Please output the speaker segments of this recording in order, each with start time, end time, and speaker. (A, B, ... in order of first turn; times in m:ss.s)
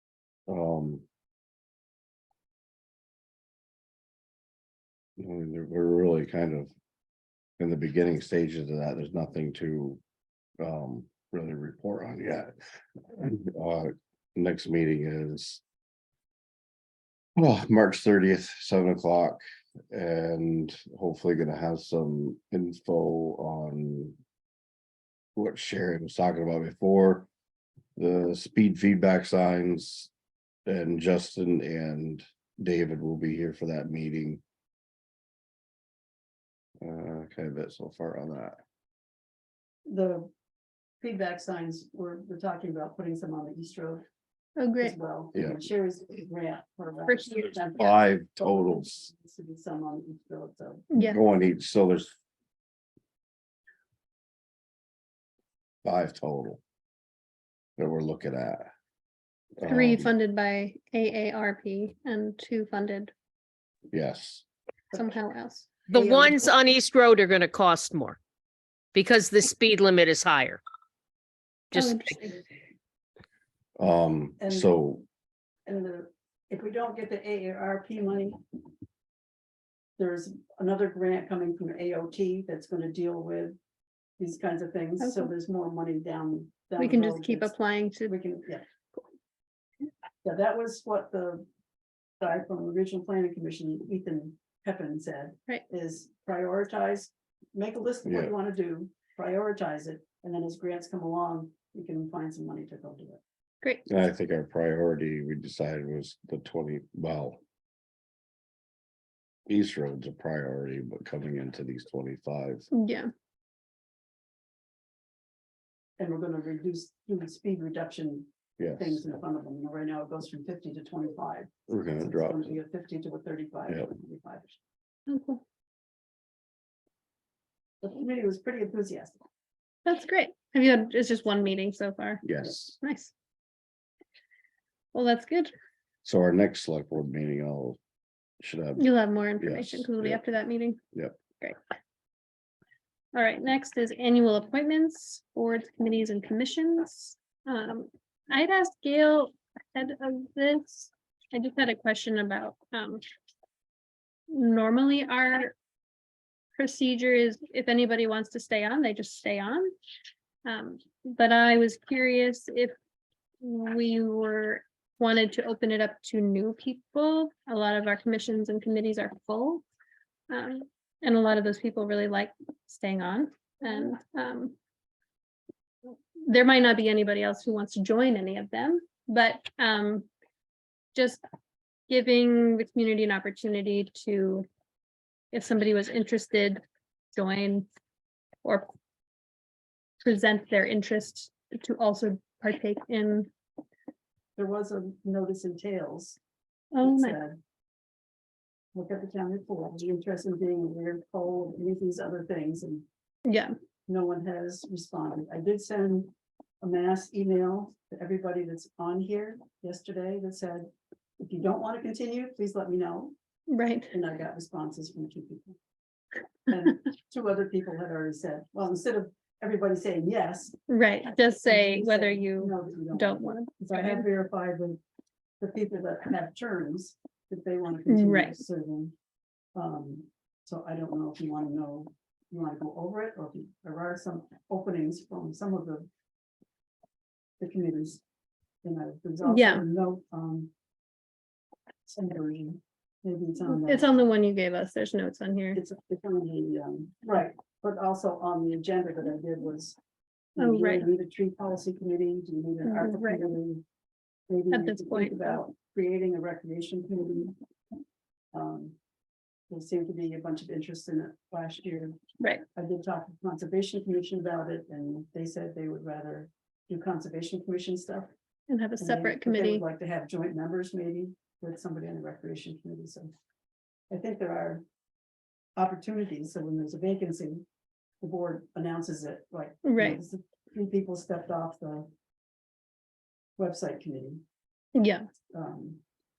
0:00.5-0:01.0 A
0:05.2-0:06.7 A
0:07.6-0:10.0 A
0:10.6-0:12.5 A
0:13.1-0:15.6 A
0:17.4-0:24.2 A
0:25.4-0:27.3 A
0:28.0-0:30.1 A
0:30.7-0:34.4 A
0:36.8-0:38.6 A
0:39.9-0:40.3 B
0:41.0-0:44.0 B
0:44.6-0:45.0 C
0:44.8-0:50.9 B
0:47.1-0:47.5 C
0:47.8-0:49.1 A
0:50.9-0:51.2 C
0:51.0-0:52.2 A
0:55.8-0:56.6 A
0:57.8-0:58.7 A
0:59.6-1:00.1 A
0:59.7-1:03.1 C
1:03.9-1:04.4 A
1:04.9-1:05.8 C
1:05.9-1:08.2 D
1:05.9-1:06.5 B
1:08.9-1:10.6 D
1:11.7-1:12.1 D
1:11.7-1:12.4 C
1:13.8-1:15.0 A
1:14.4-1:14.7 B
1:15.7-1:18.4 B
1:20.0-1:23.6 B
1:24.2-1:27.6 B
1:25.0-1:25.3 C
1:26.8-1:28.1 C
1:28.1-1:28.6 B
1:30.2-1:31.4 B
1:32.2-1:43.2 B
1:38.0-1:38.3 A
1:43.9-1:47.4 A
1:49.5-1:52.7 A
1:52.7-1:53.1 C
1:56.0-2:04.6 B
1:58.6-1:59.0 A
2:01.7-2:02.6 A
2:05.1-2:05.4 C
2:07.8-2:09.2 B
2:09.8-2:13.1 C
2:12.2-2:12.8 A
2:14.9-2:15.5 C
2:16.0-2:17.8 A
2:18.4-2:18.9 A
2:18.8-2:20.8 C
2:19.4-2:20.2 A
2:23.1-2:33.0 C
2:34.3-2:35.5 C
2:36.6-2:39.7 C
2:40.4-2:42.8 C
2:43.4-2:49.6 C
2:50.3-2:54.6 C
2:55.9-3:00.1 C
3:00.9-3:01.2 C
3:01.9-3:04.4 C
3:05.3-3:06.6 C
3:07.1-3:07.7 C
3:10.0-3:13.3 C
3:14.4-3:16.2 B
3:16.7-3:17.2 C
3:16.8-3:17.4 B
3:18.7-3:22.8 B
3:23.2-3:23.5 C
3:23.9-3:33.1 B
3:33.5-3:33.9 C
3:33.9-3:35.6 B
3:36.5-3:40.6 B
3:40.7-3:44.0 C
3:41.2-3:44.8 B
3:45.4-3:48.9 B
3:47.9-3:48.3 C
3:49.5-3:55.9 B
3:57.4-3:58.0 B
3:58.6-4:00.5 B
3:59.2-3:59.6 C
4:01.9-4:04.0 B
4:03.4-4:05.6 C
4:05.5-4:09.8 B
4:10.4-4:13.6 B
4:10.4-4:10.9 C
4:12.6-4:13.3 C
4:14.3-4:17.4 B
4:14.5-4:15.3 C
4:18.3-4:18.8 B
4:19.5-4:22.0 B
4:22.5-4:28.1 B
4:28.5-4:29.6 C
4:28.8-4:33.1 B
4:33.9-4:34.6 B
4:35.6-4:37.4 B
4:38.0-4:41.9 B
4:39.6-4:40.0 C
4:43.4-4:44.2 B
4:44.8-4:45.0 C
4:45.3-4:45.8 B